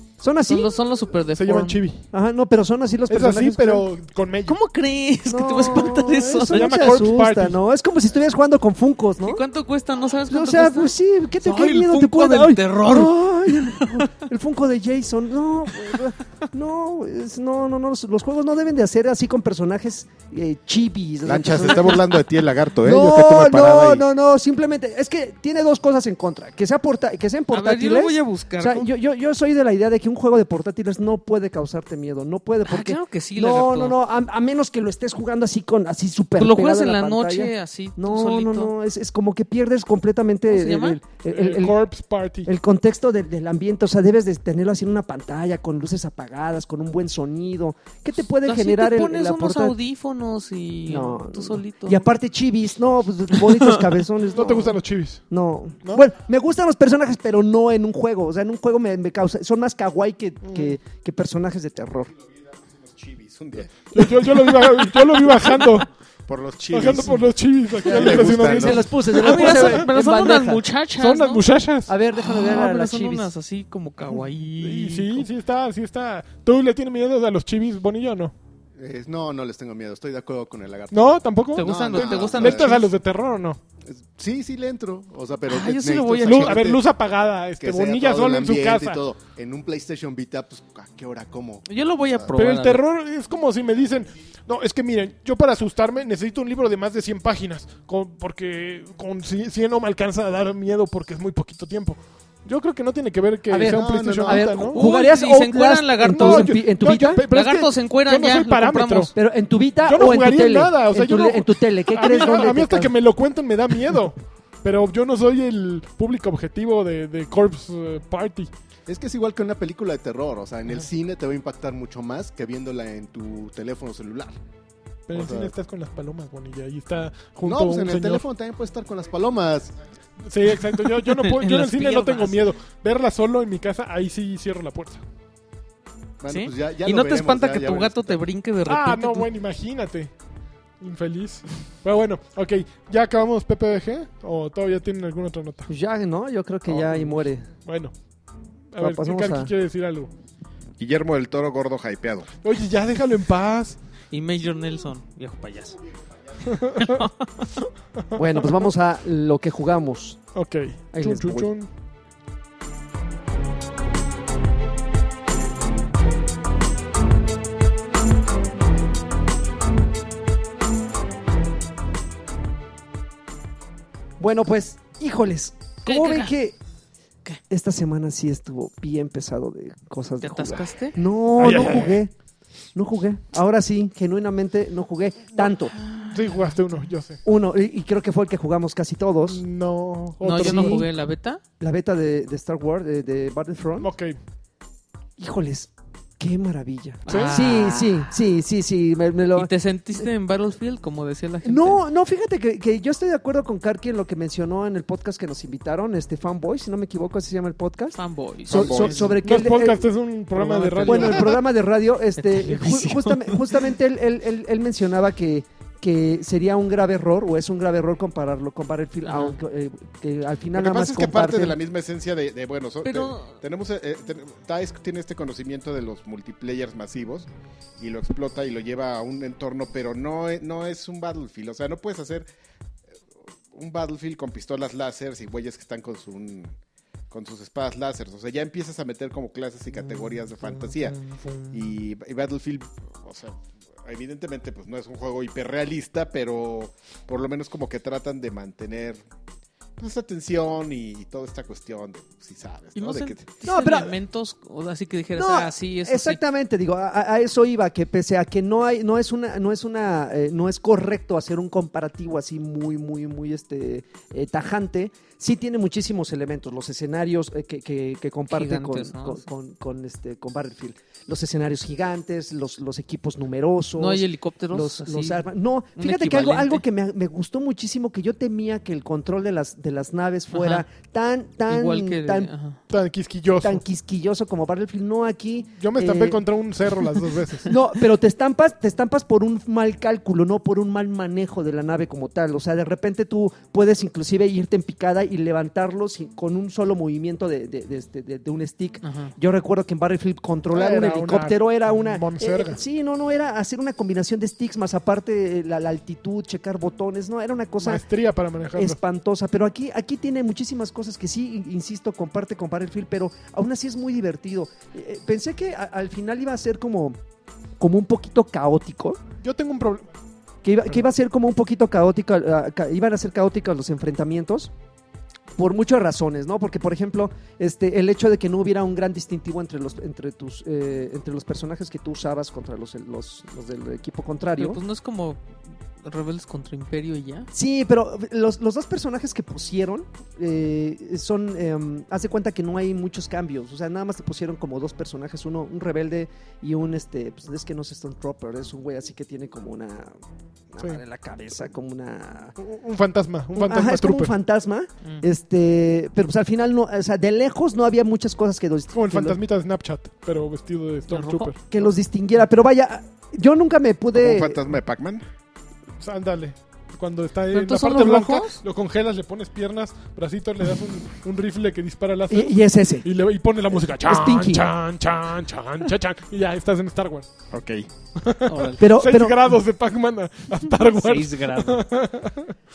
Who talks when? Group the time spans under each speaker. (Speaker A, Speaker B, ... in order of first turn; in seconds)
Speaker A: 0.2-0.8, 2.1-3.9, 5.3-9.4, 10.3-22.2, 22.8-41.8, 42.5-49.8, 50.9-54.8, 55.3-62.1, 67.8-70.7, 71.9-73.3, 103.5-107.2, 109.2-112.9, 145.7-147.5, 148.8-149.5, 158.2-160.2, 160.9-161.5, 174.2-176.6, 177.5-182.1, 182.8-185.8, 187.2-189.4, 190.4-190.9, 191.6-193.9, 195.2-200.1, 201.4-209.8, 210.4-221.6, 253.4-253.9, 255.2-282.3, 283.4-286.2, 287.5-307.8, 308.5-317.0, 317.6-319.0, 320.4-324.5, 325.4-334.6, 337.3-349.9, 350.5-352.4, 353.3-359.2, 361.5-364.4, 372.1-372.9, 373.6-374.4, 378.6-379.4
Speaker B: 0.5-1.8, 4.5-6.9, 9.2-14.2, 27.5-28.9, 32.6-34.0, 36.4-38.7, 40.5-41.0, 48.4-52.0, 53.4-53.8, 69.1-71.5, 72.1-75.3, 81.5-82.9, 85.5-86.7, 91.7-92.8, 104.7-109.1, 130.7-132.5, 136.3-139.3, 154.1-155.8, 156.6-157.5, 175.8-176.3, 180.2-181.0, 185.7-186.5, 190.2-191.4, 197.1-198.1, 199.3-201.8, 207.9-209.2, 210.4-211.3, 212.2-213.7, 219.0-219.4, 222.8-223.4, 252.8-256.2, 268.3-269.2, 273.8-276.6, 280.3-280.6, 281.5-282.6, 298.8-299.1, 334.4-335.2, 335.8-337.3, 360.9-361.3, 367.3-368.4, 378.3-378.6, 380.5-381.6
Speaker C: 1.4-2.1, 3.1-4.6, 6.4-7.6, 41.3-42.5, 54.3-55.2, 60.4-60.7, 63.9-65.9, 66.7-69.9, 71.0-71.9, 74.6-78.3, 80.9-83.6, 86.2-89.0, 92.3-104.8, 106.0-109.1, 109.8-118.5, 125.1-128.2, 130.2-135.0, 138.7-140.1, 140.8-145.7, 146.7-147.9, 148.7-150.1, 152.4-153.8, 156.4-157.0, 158.0-158.6, 160.3-161.7, 181.4-182.0, 186.1-187.2, 189.3-190.9, 193.8-194.2, 197.1-197.4, 209.0-211.4, 240.4-241.6, 282.7-283.6, 285.6-287.5, 300.5-302.6, 307.6-308.8, 319.2-319.9, 352.4-354.1, 358.7-361.5, 365.8-377.1, 378.0-382.3
Speaker D: 21.2-24.1, 62.7-63.9, 66.3-67.3, 67.8-68.9, 150.8-152.3, 208.5-209.2, 220.5-227.3, 227.8-232.3, 233.5-236.6, 237.1-241.0, 241.5-249.0, 249.8-253.3, 363.9-365.0, 377.3-377.7
Speaker E: 78.8-82.8, 83.9-86.8, 87.6-91.7, 103.6-104.5, 118.9-124.3, 125.1-125.5, 127.4-129.8, 136.2-138.2